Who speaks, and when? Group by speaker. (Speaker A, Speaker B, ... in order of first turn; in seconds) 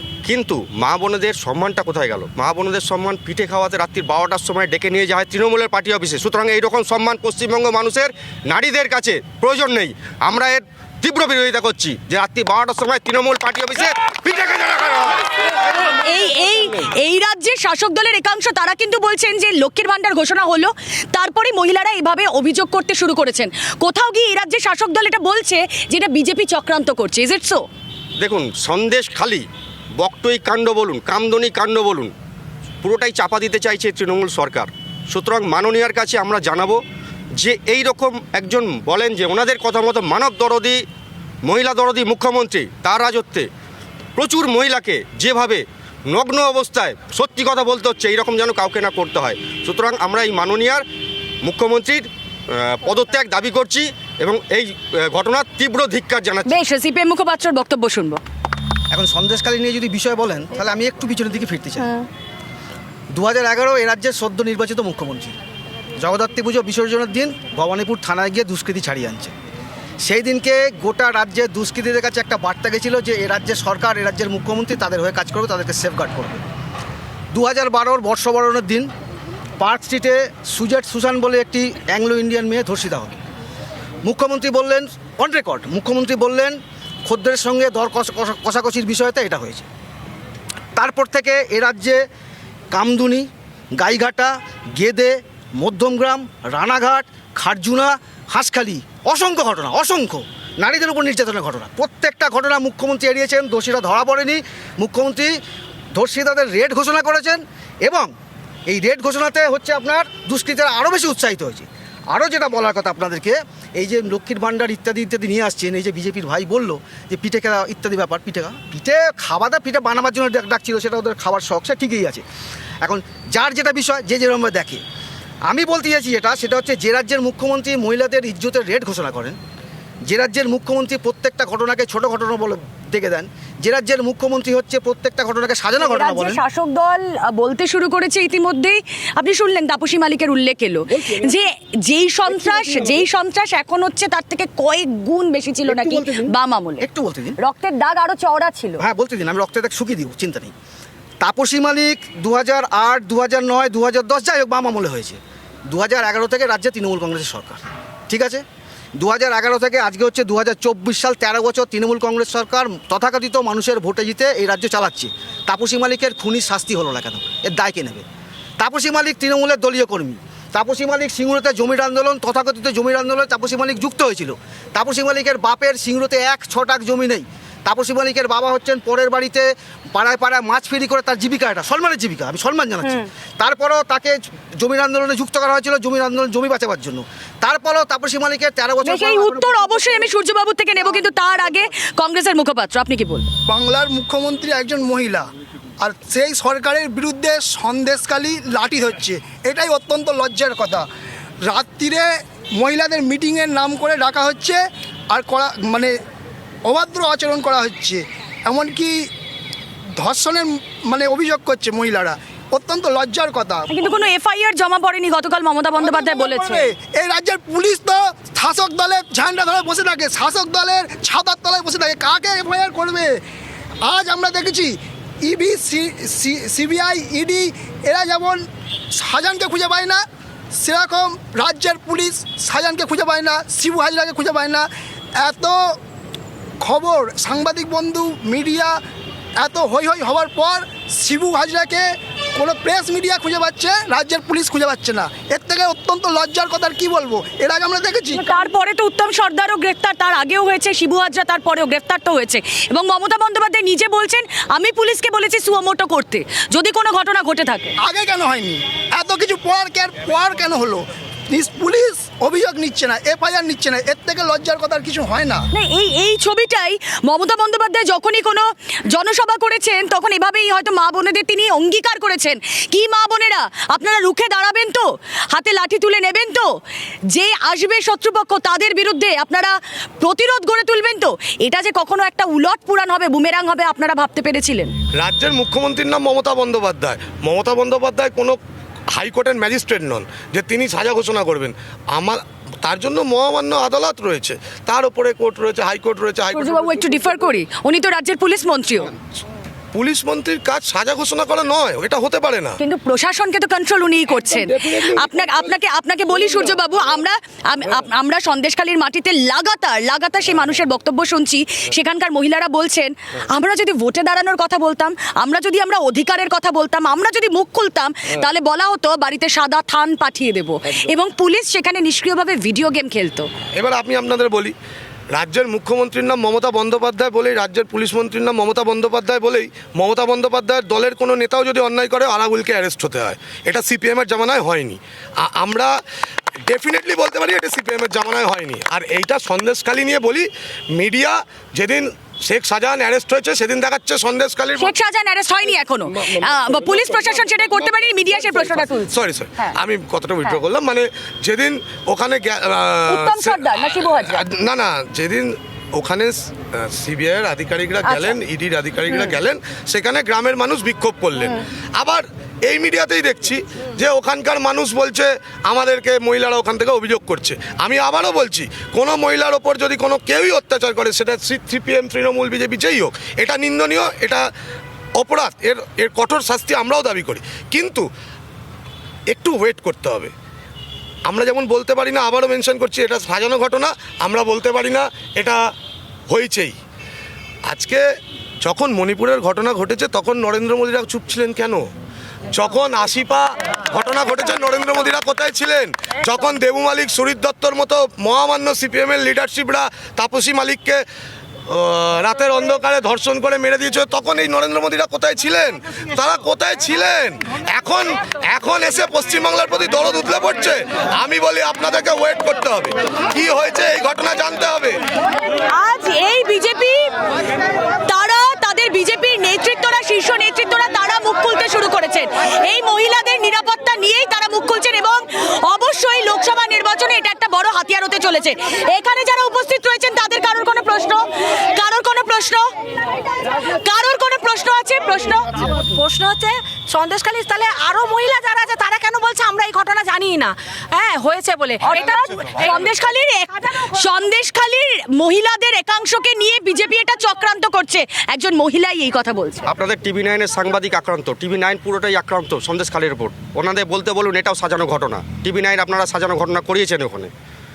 Speaker A: 0.2-15.2, 28.2-29.4, 30.0-32.1, 32.8-36.8, 37.4-40.8, 41.4-43.5, 44.2-50.8, 51.4-56.5, 449.5-457.1
Speaker B: 16.0-27.6, 56.5-58.2, 135.8-146.9, 147.4-148.8, 188.8-193.3, 213.7-216.7, 248.1-257.7, 265.5-276.5, 277.1-284.7, 296.3-298.9, 302.6-323.3, 344.6-349.5, 352.9-354.2, 357.9-358.1, 415.5-416.9, 417.8-432.4, 433.5-435.4, 441.6-449.4
Speaker C: 58.9-62.0, 63.1-65.3, 66.0-69.3, 70.0-76.4, 77.3-78.9, 79.6-83.2, 84.0-89.6, 90.8-92.0, 92.7-105.4, 105.9-108.1, 108.7-122.2, 122.8-124.8, 125.5-129.3, 130.1-136.4, 145.7-147.3, 148.8-150.5, 151.2-155.2, 155.7-158.4, 159.0-168.0, 168.6-189.7
Speaker D: 193.5-195.2, 195.8-200.8, 201.4-205.9, 206.6-209.1, 210.0-213.7, 215.8-223.2, 223.8-230.0, 230.5-235.8, 236.6-238.8, 239.4-248.2, 257.8-265.4
Speaker E: 284.9-288.4, 288.9-296.8, 299.7-302.6, 323.5-324.5, 325.1-335.7, 336.4-344.7, 348.9-374.2, 375.0-377.9, 379.1-380.1, 381.1-385.4, 386.1-386.6, 387.4-387.8, 388.4-391.6, 392.3-400.8, 401.5-414.8
Speaker F: 435.5-441.7